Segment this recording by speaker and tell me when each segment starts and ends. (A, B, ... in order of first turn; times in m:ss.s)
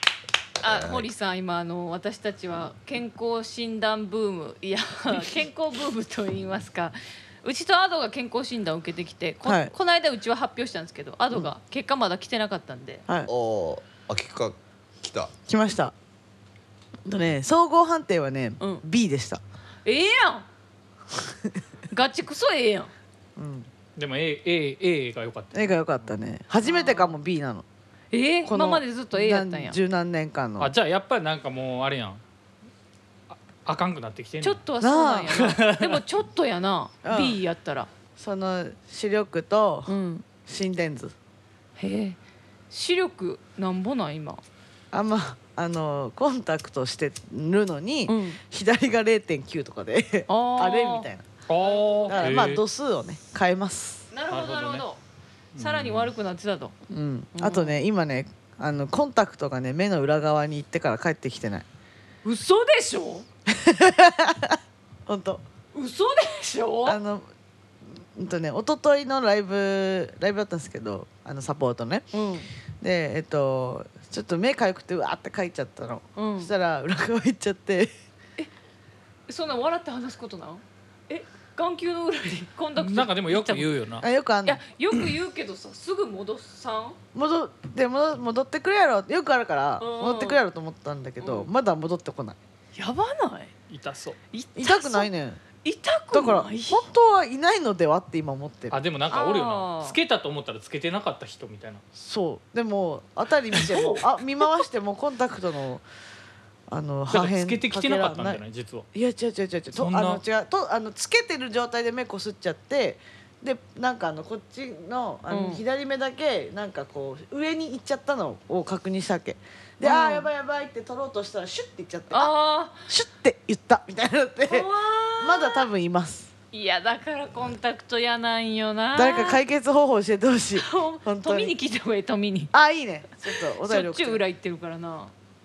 0:00.6-0:13.0 A
0:00.6-0:01.1 B
0:09.4-0:09.7 C
0:13.3-0:15.3 B
0:15.5-0:16.0 C
0:17.1-0:19.4 C
0:18.6-0:18.8 A
0:19.8-0:20.5 A
0:21.9-0:22.9 A
0:23.4-0:23.7 C
0:24.0-0:25.8 D
0:25.5-0:27.6 C
0:26.6-0:27.2 A
0:28.1-0:29.8 A
0:28.4-0:30.7 C
0:30.6-0:32.2 D
0:33.3-0:34.6 D
0:34.4-0:37.9 A
0:34.8-0:35.4 C
0:35.4-0:36.0 D
0:37.0-0:37.4 C
0:38.2-0:41.2 C
0:39.9-0:40.2 A
0:41.8-0:42.2 A
0:42.7-0:44.4 A
0:44.9-0:51.3 C
0:48.1-0:48.4 A
0:50.3-0:51.1 A
0:51.5-0:52.6 D
0:51.6-0:52.5 A
0:52.1-0:54.1 C
0:54.1-0:55.0 A
0:54.3-0:54.8 D
0:55.6-0:56.1 D
0:55.6-0:56.7 A
0:56.9-1:01.7 C
0:57.3-0:57.8 A
1:02.2-1:03.3 A
1:03.5-1:05.4 C
1:05.7-1:07.0 A
1:06.9-1:07.3 C
1:08.2-1:12.1 C
1:12.1-1:12.5 A
1:12.8-1:17.9 C
1:16.2-1:16.5 A
1:19.3-1:23.7 A
1:22.8-1:24.1 D
1:24.0-1:24.6 C
1:24.4-1:27.0 A
1:27.1-1:32.4 C
1:29.8-1:30.4 A
1:31.2-1:31.5 A
1:32.8-1:33.5 A
1:33.7-1:34.2 D
1:34.3-1:35.1 A
1:34.6-1:35.4 C
1:35.6-1:36.9 A
1:36.1-1:38.8 C
1:38.7-1:41.8 D
1:39.1-1:40.0 A
1:42.0-1:45.8 C
1:46.7-1:48.4 C
1:47.1-1:48.9 D
1:48.9-2:02.3 C
1:49.8-1:50.2 D
1:55.3-1:55.6 A
1:59.8-2:00.3 A
2:02.1-2:02.9 A
2:02.9-2:04.7 C
2:04.5-2:05.7 A
2:05.2-2:06.3 C
2:06.5-2:09.4 A
2:08.9-2:11.5 C
2:10.6-2:12.5 A
2:12.5-2:14.2 C
2:13.3-2:15.1 A